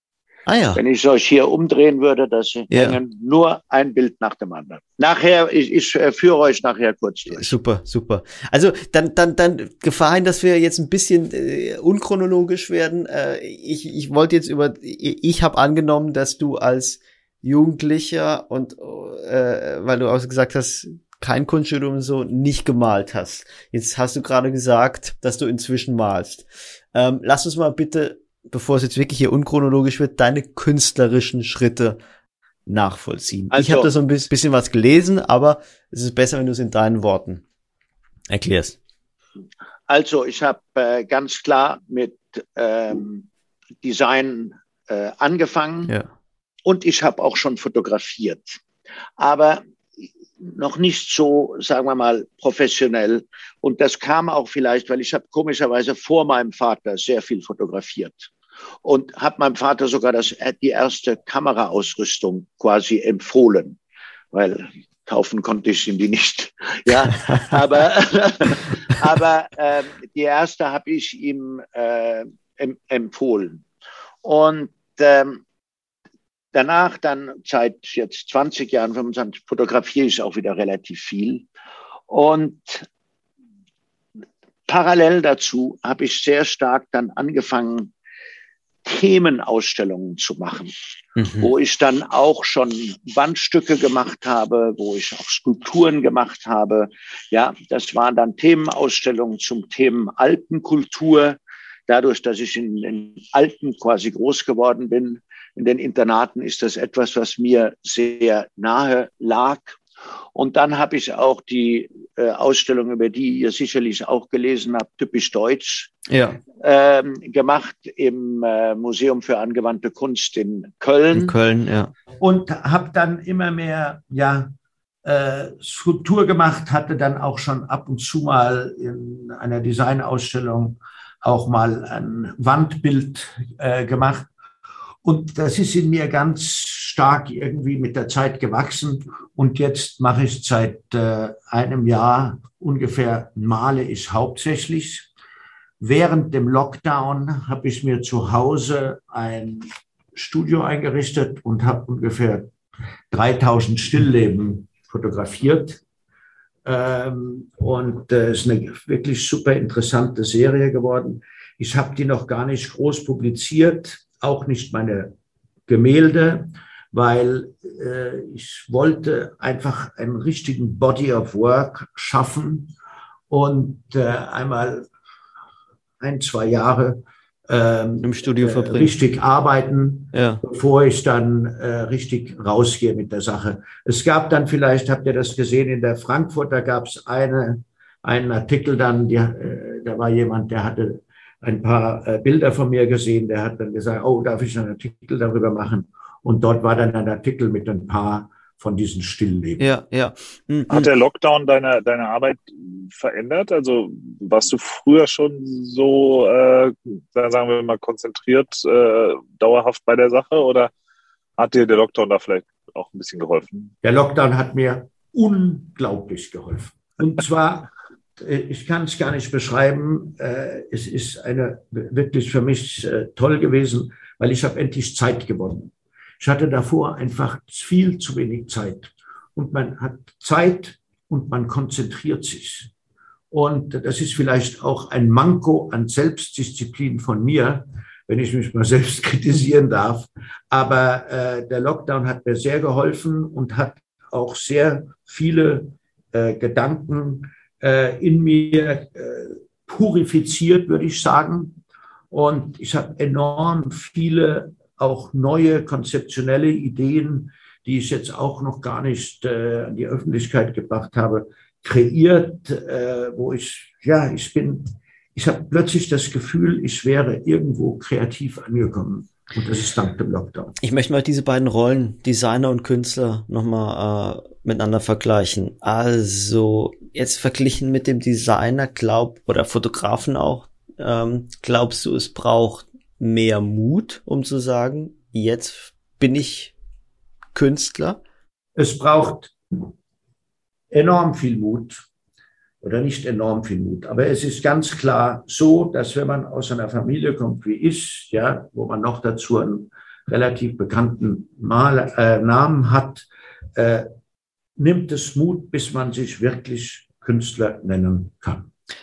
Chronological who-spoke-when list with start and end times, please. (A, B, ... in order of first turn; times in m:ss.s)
0:00.5-0:00.8 A
0:00.8-0:07.5 B
0:02.7-0:03.0 A
0:07.3-0:32.0 A
0:32.7-0:37.4 A
0:33.5-0:33.9 B
0:38.3-0:38.8 A
0:39.9-0:43.3 B
0:43.8-0:45.9 B
0:46.6-0:48.6 B
0:49.2-0:58.3 B
0:58.8-1:03.8 B
1:04.3-1:13.7 B
1:14.2-1:15.4 B
1:16.5-1:21.5 B
1:22.1-1:22.9 B
1:24.7-1:27.9 B
1:28.8-1:30.7 B
1:31.2-1:31.5 A
1:31.4-1:49.8 B
1:50.4-1:55.9 B
1:56.1-1:56.4 A
1:56.6-2:01.3 B
2:01.1-2:01.9 A
2:02.2-2:04.5 B
2:05.0-2:14.3 B
2:15.0-2:25.1 B
2:25.8-2:32.5 B
2:33.1-2:35.8 B
2:36.6-2:45.1 B
2:45.7-2:52.7 B
2:53.3-2:54.9 B
2:56.0-3:19.7 B
2:58.0-2:58.9 A
3:00.1-3:00.4 A
3:19.6-3:20.9 A
3:20.7-3:30.7 C
3:31.4-3:33.7 C
3:33.8-3:52.7 B
3:53.3-4:11.6 B
4:12.1-4:30.6 B
4:30.6-4:46.5 A
4:47.4-4:48.0 A
4:48.6-4:49.7 B
4:50.7-4:51.8 B
4:52.6-5:03.9 B
5:04.6-5:08.5 B